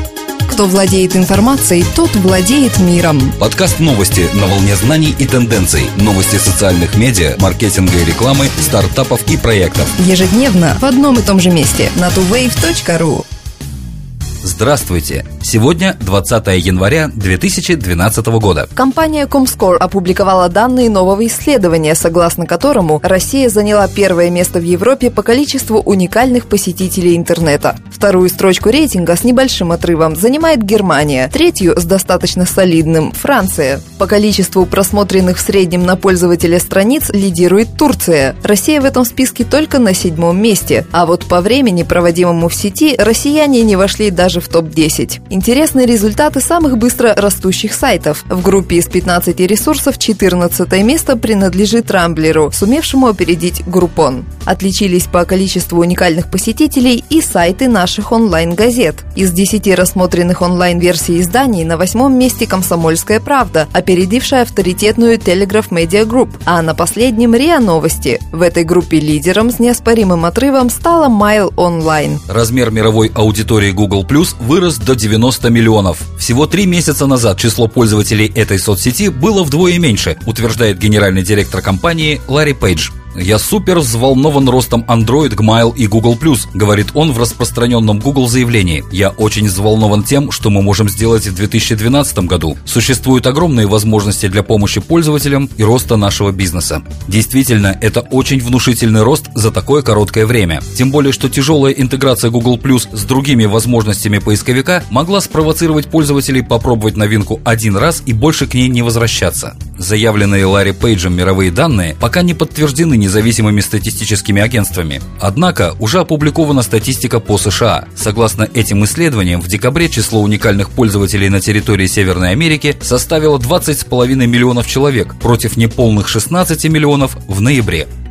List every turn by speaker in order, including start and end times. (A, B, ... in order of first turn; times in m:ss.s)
0:00.5-0:03.3 A
0:03.4-0:09.9 B
0:10.0-0:13.2 A
0:14.4-0:18.7 B
0:18.8-1:12.2 A
1:12.3-2:07.9 B